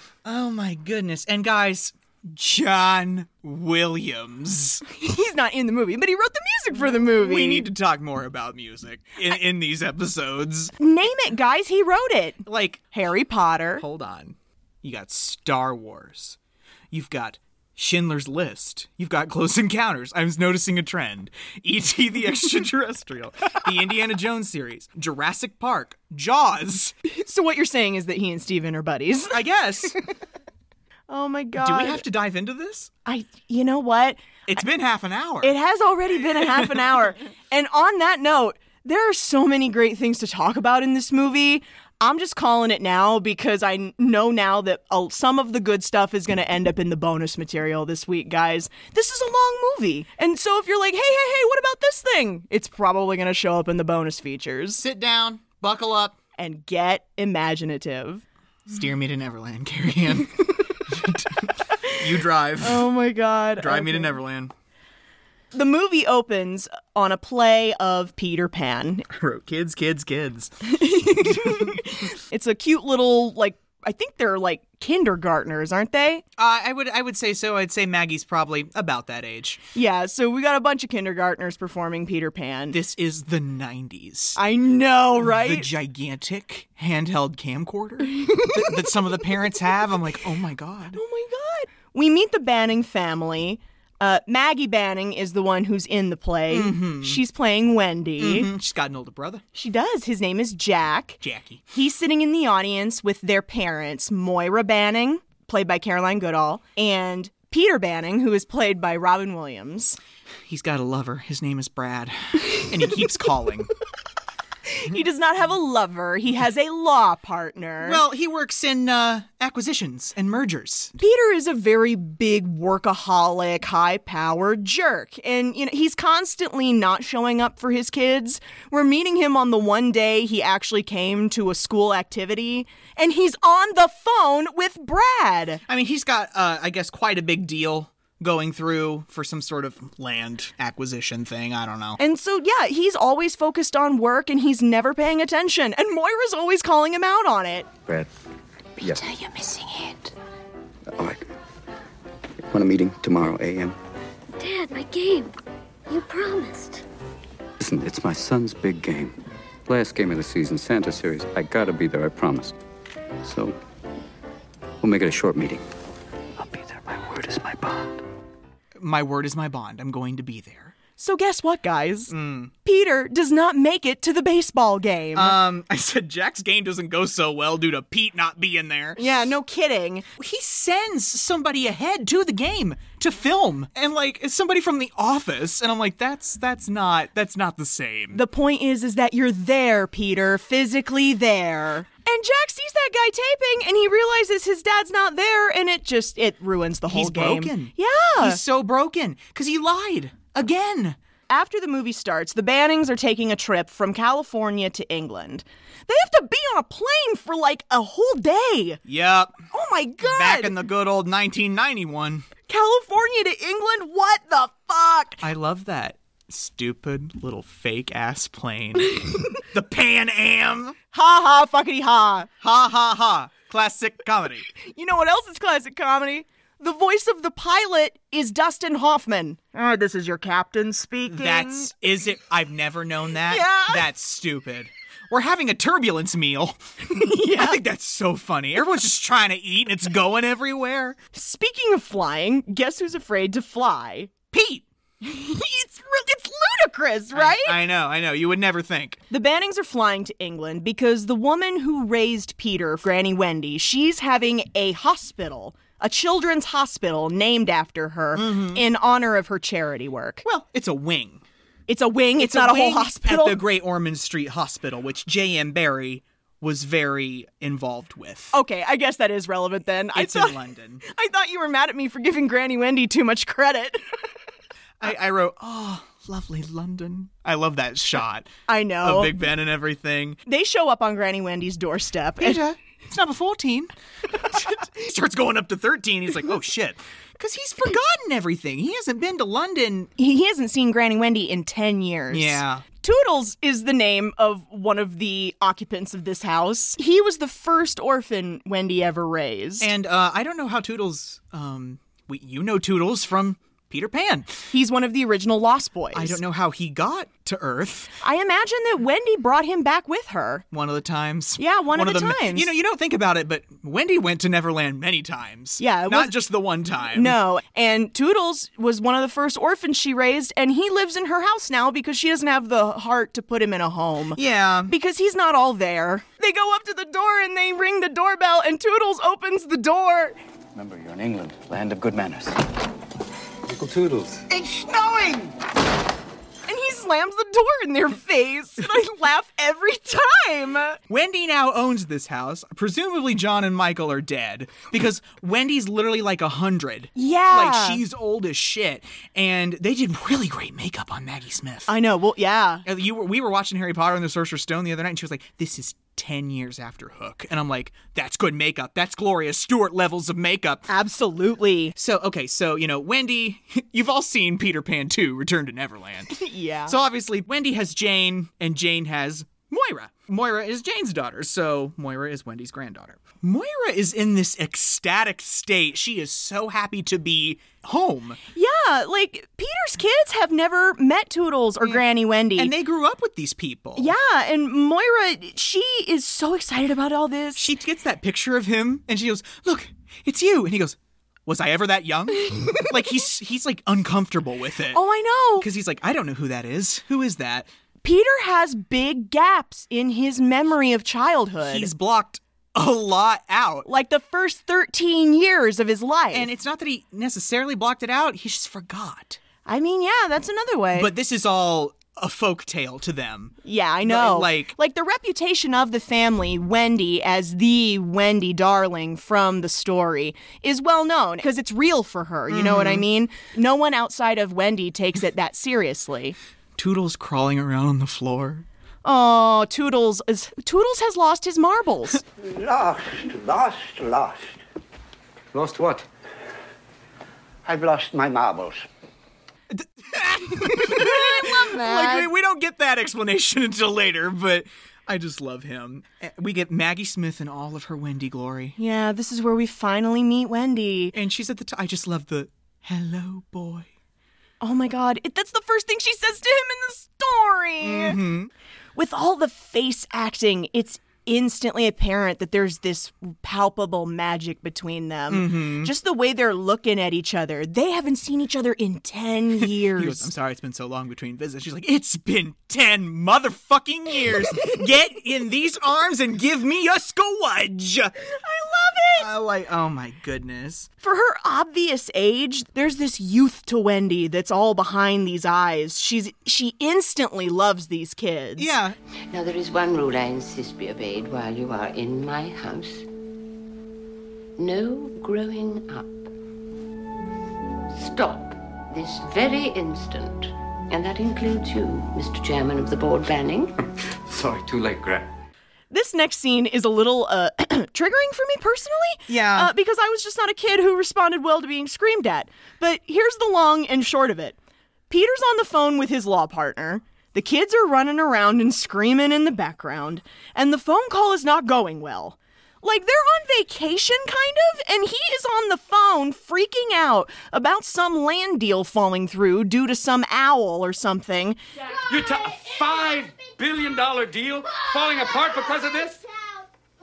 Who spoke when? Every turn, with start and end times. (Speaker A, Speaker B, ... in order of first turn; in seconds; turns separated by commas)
Speaker A: 0.2-4.8, Speaker B: 4.9-7.7, Speaker A: 6.8-10.7, Speaker B: 10.8-13.8, Speaker A: 12.4-12.8, Speaker A: 13.8-16.4, Speaker A: 16.9-26.9, Speaker B: 27.1-29.4, Speaker A: 29.3-30.0, Speaker B: 31.1-32.0, Speaker A: 31.6-32.9, Speaker B: 33.1-34.2, Speaker A: 34.5-35.5, Speaker B: 35.4-54.8, Speaker A: 36.5-36.8, Speaker A: 54.8-56.2, Speaker B: 56.4-58.2, Speaker A: 58.7-62.9, Speaker B: 62.6-64.2, Speaker A: 63.6-64.5, Speaker B: 65.5-69.1, Speaker A: 69.2-71.8, Speaker B: 70.7-76.2, Speaker A: 76.4-79.6, Speaker B: 79.8-82.8, Speaker A: 82.7-84.4, Speaker B: 84.4-85.7, Speaker A: 85.2-91.0, Speaker B: 88.2-89.2, Speaker B: 90.9-98.5, Speaker A: 96.5-97.2, Speaker A: 98.2-99.4, Speaker B: 99.5-101.2, Speaker A: 101.2-101.6, Speaker B: 101.7-110.0, Speaker A: 110.5-113.7, Speaker B: 114.7-118.0, Speaker A: 117.8-120.9, Speaker B: 121.0-135.6, Speaker A: 135.7-142.0, Speaker B: 142.0-147.7, Speaker C: 150.9-151.2, Speaker C: 152.5-153.8, Speaker D: 154.4-155.3, Speaker D: 155.9-156.8, Speaker C: 157.6-162.6, Speaker C: 163.2-163.6, Speaker C: 164.8-165.7, Speaker C: 166.4-168.0, Speaker A: 168.8-170.8, Speaker B: 171.0-172.1, Speaker A: 172.1-172.5, Speaker B: 172.6-175.4, Speaker A: 175.2-179.1, Speaker B: 179.0-180.1, Speaker A: 180.2-188.2, Speaker B: 188.1-198.4, Speaker A: 196.9-201.0, Speaker B: 201.3-208.8, Speaker A: 208.9-209.3, Speaker B: 209.5-210.5, Speaker A: 210.0-212.3, Speaker B: 212.5-215.2, Speaker A: 215.2-220.8, Speaker B: 220.9-222.3, Speaker A: 222.4-224.5, Speaker B: 224.6-231.7, Speaker A: 231.1-241.0, Speaker B: 233.3-233.8, Speaker B: 236.9-237.6, Speaker B: 241.1-244.1, Speaker A: 244.3-244.7, Speaker B: 245.0-247.6, Speaker A: 247.1-249.0, Speaker B: 249.1-260.2, Speaker A: 258.1-258.6, Speaker A: 260.2-261.2, Speaker B: 261.7-263.4, Speaker A: 262.2-268.3, Speaker B: 268.3-273.8, Speaker A: 269.9-270.8, Speaker A: 274.8-278.3, Speaker B: 278.5-279.1, Speaker A: 278.8-280.2, Speaker B: 280.3-282.4, Speaker A: 282.2-289.9, Speaker B: 290.0-299.7, Speaker A: 292.1-292.6, Speaker A: 299.6-304.4, Speaker B: 304.5-306.2, Speaker A: 305.9-307.9, Speaker B: 308.0-310.4, Speaker A: 310.5-317.2, Speaker B: 311.4-312.5, Speaker B: 315.6-316.2, Speaker B: 316.9-330.2, Speaker A: 324.1-324.7, Speaker C: 330.5-332.5, Speaker C: 333.5-334.3, Speaker E: 334.3-335.3, Speaker B: 336.5-340.8, Speaker A: 340.9-351.7, Speaker B: 347.0-347.8, Speaker B: 351.7-352.6, Speaker A: 352.6-360.7, Speaker B: 360.7-361.7, Speaker A: 361.8-378.2, Speaker B: 366.1-366.8, Speaker B: 378.3-382.5, Speaker A: 382.4-383.9, Speaker B: 383.8-387.5, Speaker A: 387.4-394.8, Speaker B: 394.7-395.5, Speaker A: 395.4-397.5, Speaker B: 397.8-401.7, Speaker A: 401.4-403.7, Speaker B: 403.7-406.3, Speaker A: 406.1-409.2, Speaker B: 409.5-410.9, Speaker A: 410.8-414.6, Speaker B: 413.4-426.2, Speaker A: 422.3-422.9, Speaker A: 426.6-428.5, Speaker B: 428.8-432.0, Speaker E: 432.2-434.3, Speaker E: 437.5-438.6, Speaker A: 439.5-448.6, Speaker B: 440.5-442.1, Speaker B: 448.6-450.9, Speaker A: 450.9-453.7, Speaker B: 454.4-458.0, Speaker A: 457.6-458.3, Speaker B: 458.8-470.1, Speaker A: 465.1-465.7, Speaker A: 469.4-477.9, Speaker B: 478.1-479.1, Speaker A: 479.0-480.7, Speaker B: 480.8-488.5, Speaker A: 488.4-488.8, Speaker F: 489.1-492.9, Speaker F: 494.4-496.1, Speaker F: 497.7-503.6, Speaker C: 503.8-505.1, Speaker B: 505.7-514.4, Speaker A: 509.1-509.5, Speaker B: 514.9-531.4, Speaker G: 531.9-536.0